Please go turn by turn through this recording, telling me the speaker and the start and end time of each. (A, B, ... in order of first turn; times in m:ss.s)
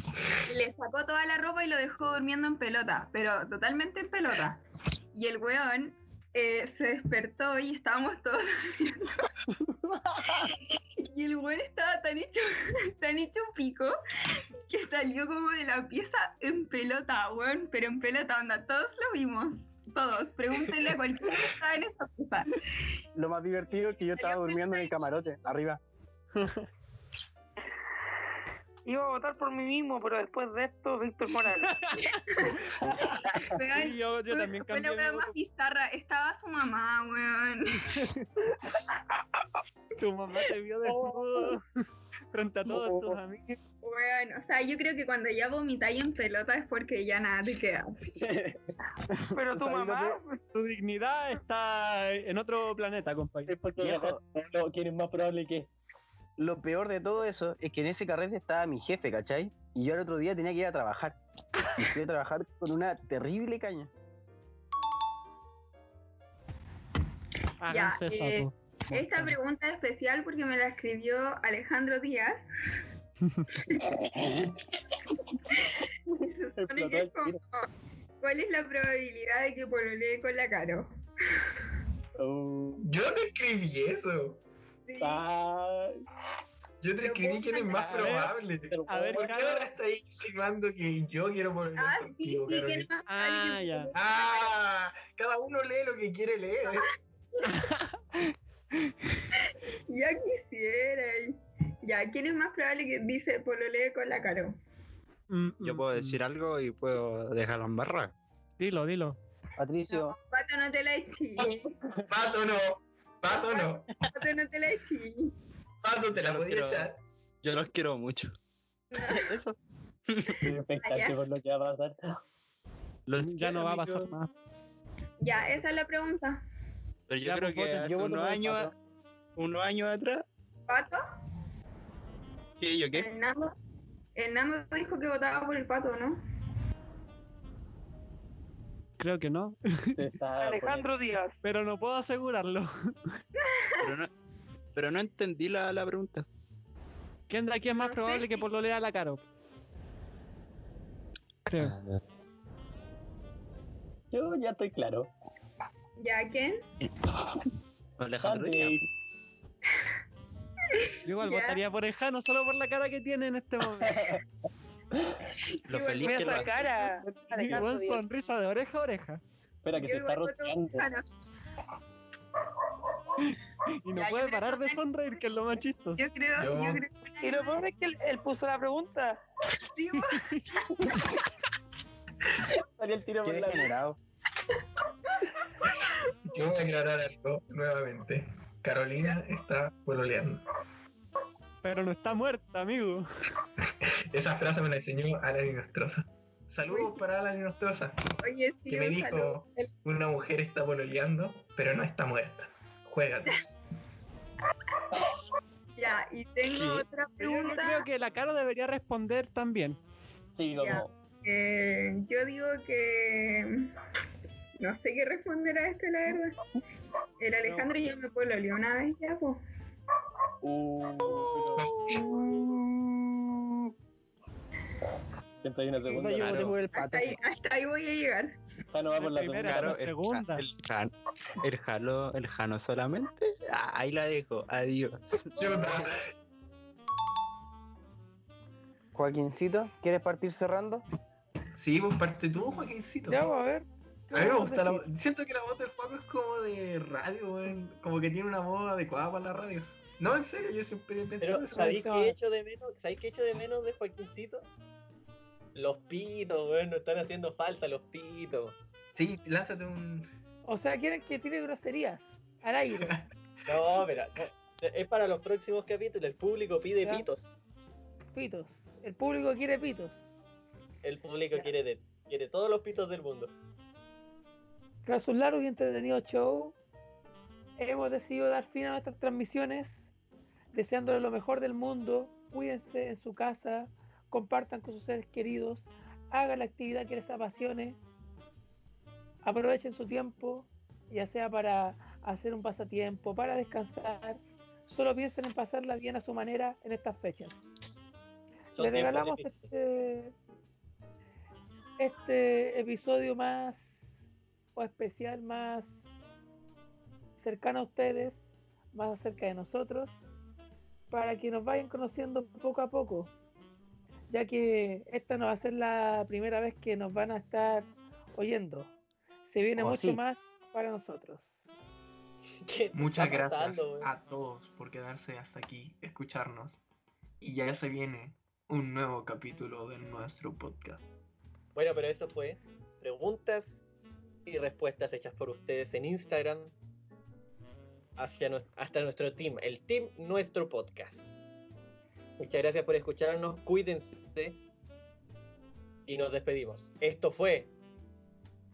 0:00.4-0:04.6 A
0:05.1-0:09.3 A
0:10.3-0:14.0 A
0:14.7-0:22.6 A
0:23.1-0:25.8 B
0:23.7-0:25.4 A
0:26.4-0:26.6 C
0:28.9-0:31.8 D
0:31.7-0:32.1 C
0:32.1-0:32.6 A
0:33.4-0:38.0 A
0:33.7-0:35.4 C
0:37.9-0:38.3 C
0:40.0-0:41.6 C
0:42.3-0:43.6 C
0:43.8-0:48.1 A
0:48.2-0:48.6 E
0:49.4-0:50.4 D
0:49.5-0:50.2 B
0:50.5-0:53.6 C
0:53.5-0:55.7 E
0:53.8-0:54.2 B
0:56.4-1:01.2 B
1:01.8-1:03.9 B
1:07.6-1:09.4 C
1:07.7-1:12.4 A
1:13.2-1:13.6 C
1:15.5-1:17.7 A
1:16.6-1:17.4 E
1:18.2-1:21.6 A
1:22.2-1:22.8 E
1:22.8-1:24.4 F
1:24.9-1:25.2 A
1:25.0-1:26.0 E
1:26.8-1:32.9 F
1:27.0-1:28.2 A
1:28.0-1:28.3 C
1:28.7-1:29.4 E
1:28.9-1:29.7 C
1:31.8-1:34.5 A
1:33.1-1:33.9 C
1:33.9-1:36.9 F
1:36.7-1:37.5 A
1:37.4-1:38.0 C
1:39.4-1:44.5 A
1:45.3-1:46.2 C
1:45.6-1:48.1 G
1:48.6-1:49.2 C
1:49.6-1:50.2 B
1:49.9-1:51.7 A
1:51.4-1:53.9 F
1:53.4-1:55.3 A
1:55.8-1:57.0 F
1:56.1-1:56.9 G
1:57.4-1:58.4 G
1:58.9-1:59.3 A
1:59.0-1:59.6 G
2:00.1-2:00.4 G
2:00.4-2:02.2 E
2:00.8-2:01.2 A
2:03.1-2:04.1 G
2:03.2-2:04.3 C
2:05.2-2:06.4 A
2:07.1-2:08.7 G
2:07.2-2:07.9 C
2:07.8-2:08.7 B
2:09.4-2:10.2 G
2:10.7-2:11.0 A
2:12.6-2:13.1 G
2:12.9-2:13.6 A
2:14.1-2:16.2 A
2:19.0-2:20.0 C
2:20.0-2:20.9 E
2:20.4-2:21.4 D
2:21.4-2:22.7 C
2:23.4-2:23.8 A
2:23.8-2:24.1 G
2:24.8-2:26.3 G
2:27.3-2:29.2 C
2:27.8-2:28.4 A
2:31.4-2:31.8 C
2:31.6-2:32.0 G
2:34.1-2:35.1 E
2:36.0-2:36.6 A
2:38.0-2:38.8 G
2:38.2-2:38.9 E
2:40.7-2:41.6 A
2:41.1-2:44.1 C
2:43.8-2:44.2 E
2:45.7-2:46.7 G
2:45.7-2:46.5 A
2:46.0-2:48.0 D
2:47.4-2:49.2 C
2:49.6-2:50.9 E
2:49.8-2:51.0 A
2:53.2-2:56.0 C
2:53.9-2:54.8 A
2:56.0-2:57.6 A
2:56.4-2:56.8 F
2:57.2-2:59.2 D
2:59.7-3:00.6 A
3:00.0-3:00.5 C
3:02.5-3:03.8 E
3:03.2-3:04.0 B
3:06.3-3:10.4 F
3:11.6-3:13.0 C
3:14.1-3:18.0 F
3:16.7-3:17.0 A
3:18.2-3:19.7 A
3:18.7-3:23.5 F
3:25.8-3:27.8 A
3:27.2-3:29.8 C
3:30.4-3:30.9 E
3:30.6-3:33.7 A
3:34.6-3:36.4 A
3:37.2-3:39.4 A
3:40.4-3:41.7 E
3:41.0-3:43.6 B
3:41.6-3:41.9 F
3:45.4-3:46.6 E
3:45.9-3:47.2 B
3:46.1-3:46.5 G
3:46.7-3:48.4 A
3:48.7-3:49.8 E
3:49.0-3:50.4 C
3:49.4-3:55.8 G
3:55.4-3:56.1 F
3:59.0-4:00.8 B
4:01.6-4:03.3 F
4:03.1-4:04.8 D
4:04.1-4:11.7 F
4:11.2-4:14.5 E
4:11.5-4:12.1 D
4:15.6-4:18.6 E
4:19.0-4:20.1 F
4:20.4-4:23.0 D
4:22.8-4:23.8 F
4:23.5-4:27.3 E
4:28.1-4:30.0 D
4:30.8-4:33.3 E
4:34.8-4:36.6 D
4:37.6-4:39.9 D
4:40.5-4:47.8 D
4:49.2-4:57.4 D
4:58.6-4:59.4 E
4:58.6-5:00.1 D
5:01.8-5:03.9 D
5:04.6-5:05.9 D
5:07.2-5:10.0 D
5:10.9-5:13.1 D
5:14.1-5:18.7 D
5:19.2-5:21.4 D
5:19.6-5:20.0 B
5:22.4-5:23.9 E
5:22.7-5:26.6 F
5:27.2-5:30.8 F
5:31.6-5:33.6 E
5:34.3-5:36.5 E
5:38.0-5:41.1 E
5:42.2-5:44.4 E
5:45.9-5:47.5 E